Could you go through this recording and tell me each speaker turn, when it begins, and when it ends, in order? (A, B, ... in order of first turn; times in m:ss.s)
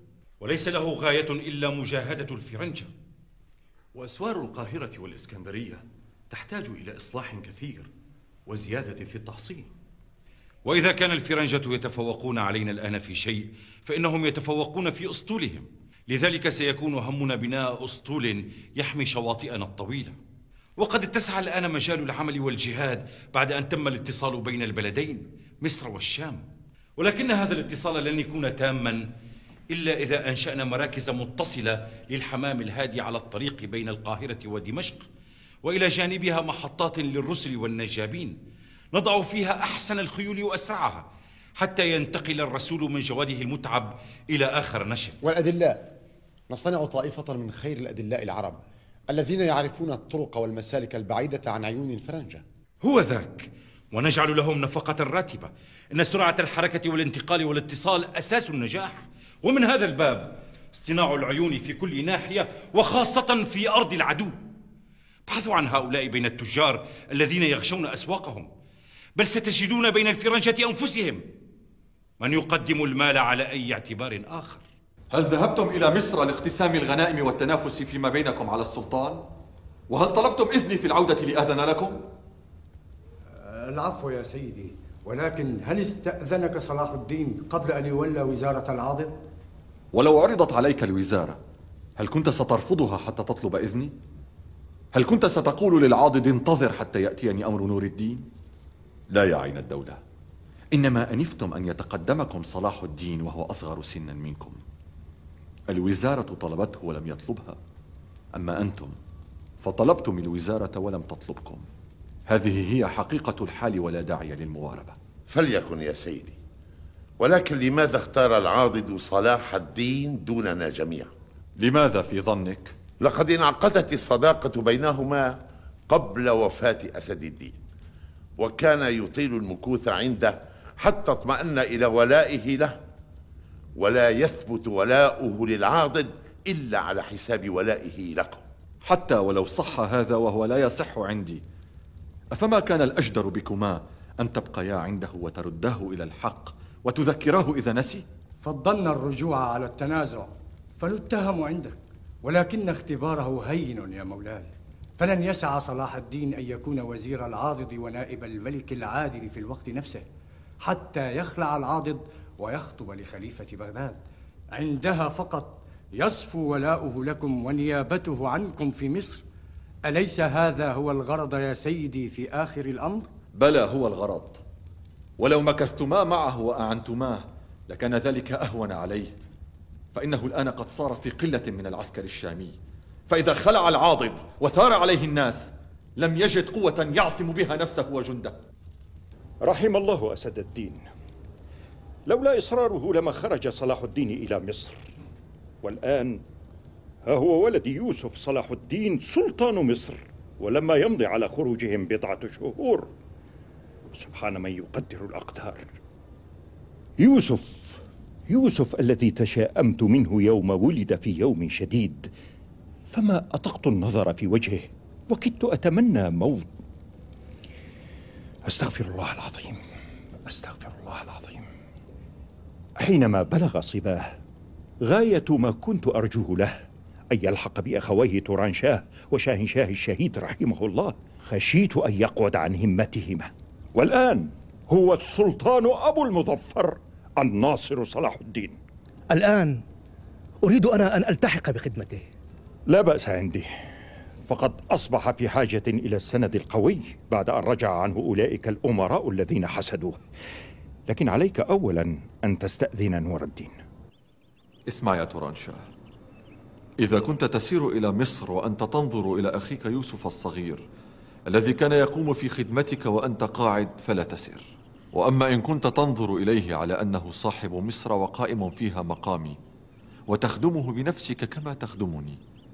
0:00.4-0:02.9 A
0:03.9-0:07.9 B
0:08.4-0:09.7 B
0:10.6-0:20.1 A
0:20.8-0:26.4 A
0:27.0-0:29.0 A
0:29.7-0:35.1 A
0:35.6-0:38.4 A
0:38.9-0:41.0 A
0:41.6-0:45.2 A
0:45.2-0:45.9 C
0:46.5-0:52.4 C
0:52.8-1:04.4 A
1:05.3-1:08.5 A
1:09.2-1:11.2 A
1:12.2-1:14.6 A
1:15.1-1:19.3 D
1:19.9-1:22.0 D
1:23.4-1:29.1 E
1:29.9-1:31.4 D
1:32.0-1:33.9 D
1:34.9-1:38.3 D
1:39.1-1:40.0 D
1:40.7-1:44.6 D
1:45.7-1:47.6 D
1:48.3-1:49.0 D
1:49.6-1:51.6 D
1:52.3-1:55.0 D
1:55.3-1:56.4 F
1:57.2-2:01.1 F
2:01.6-2:02.7 D
2:03.0-2:05.3 F
2:05.9-2:07.6 F
2:08.4-2:12.8 F
2:13.8-2:18.4 F
2:18.8-2:21.4 D
2:22.3-2:28.0 D
2:28.4-2:40.0 E
2:40.6-2:44.0 E
2:44.5-2:49.2 E
2:49.8-2:53.1 E
2:53.3-2:54.4 D
2:55.2-2:59.1 D
2:59.9-3:02.6 D
3:03.1-3:08.4 D
3:09.4-3:10.8 G
3:12.1-3:14.9 G
3:15.6-3:16.2 G
3:17.0-3:22.9 G
3:24.0-3:25.6 G
3:27.0-3:27.7 G
3:28.3-3:32.1 G
3:32.9-3:36.5 G
3:38.4-3:39.6 G
3:40.2-3:41.5 G
3:42.8-3:44.1 G
3:44.8-3:58.6 G
3:59.1-3:59.6 H
4:00.4-4:02.0 H
4:02.7-4:03.5 G
4:04.3-4:10.0 G
4:10.9-4:13.5 G
4:14.7-4:15.6 D
4:16.8-4:20.6 D
4:21.2-4:29.4 D
4:30.1-4:32.2 D